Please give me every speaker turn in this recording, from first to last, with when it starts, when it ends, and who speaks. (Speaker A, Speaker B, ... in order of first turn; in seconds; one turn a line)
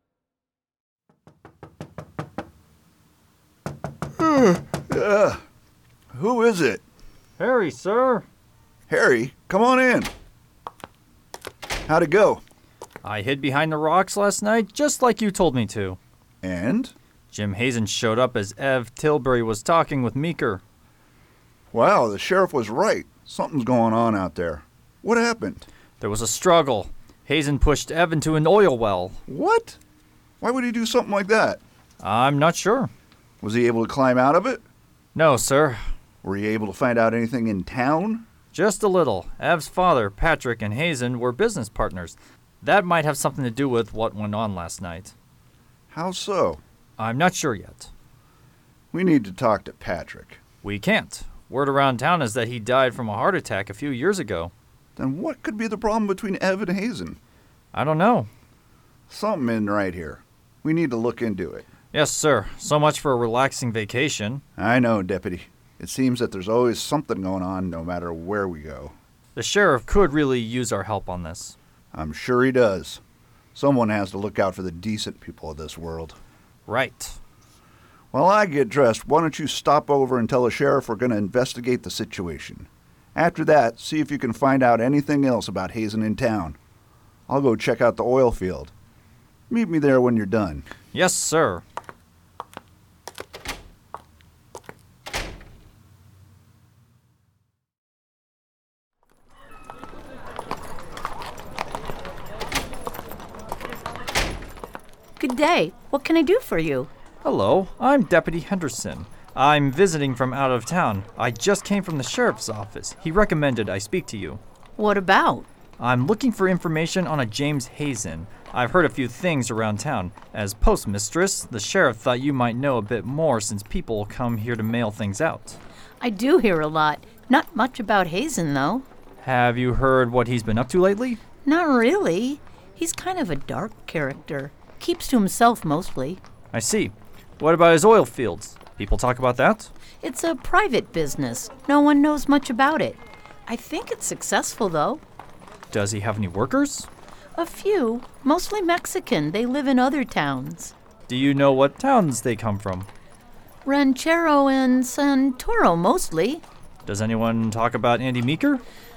Speaker A: 4.2-5.4
Speaker A: 6.1-6.8
Speaker B: 7.4-8.2
Speaker A: 8.9-10.1
Speaker A: 11.8-12.4
Speaker B: 13.0-16.0
Speaker A: 16.4-16.9
Speaker B: 17.3-20.6
Speaker A: 21.7-25.7
Speaker B: 26.0-29.2
Speaker A: 29.3-29.8
Speaker A: 30.4-31.6
Speaker B: 32.0-32.9
Speaker A: 33.4-34.6
Speaker B: 35.1-35.8
Speaker A: 36.2-38.3
Speaker B: 38.5-45.1
Speaker A: 45.9-46.6
Speaker B: 47.0-47.9
Speaker A: 48.9-50.4
Speaker B: 50.6-54.5
Speaker A: 55.0-57.2
Speaker B: 57.7-58.3
Speaker A: 59.1-61.7
Speaker B: 61.9-64.4
Speaker A: 64.6-68.9
Speaker B: 69.3-71.5
Speaker A: 71.9-73.0
Speaker A: 73.5-76.2
Speaker B: 76.7-77.2
Speaker A: 78.1-86.6
Speaker A: 87.3-88.7
Speaker A: 89.5-90.7
Speaker B: 90.9-91.6
Speaker C: 105.2-106.9
Speaker B: 107.2-114.4
Speaker C: 114.8-115.5
Speaker B: 115.8-125.6
Speaker C: 126.0-128.8
Speaker B: 129.2-131.2
Speaker C: 131.4-136.2
Speaker B: 136.5-139.7
Speaker C: 140.0-145.0
Speaker B: 145.7-146.9
Speaker C: 147.3-150.7
Speaker B: 151.1-152.9
Speaker C: 153.7-156.4
Speaker B: 156.8-158.6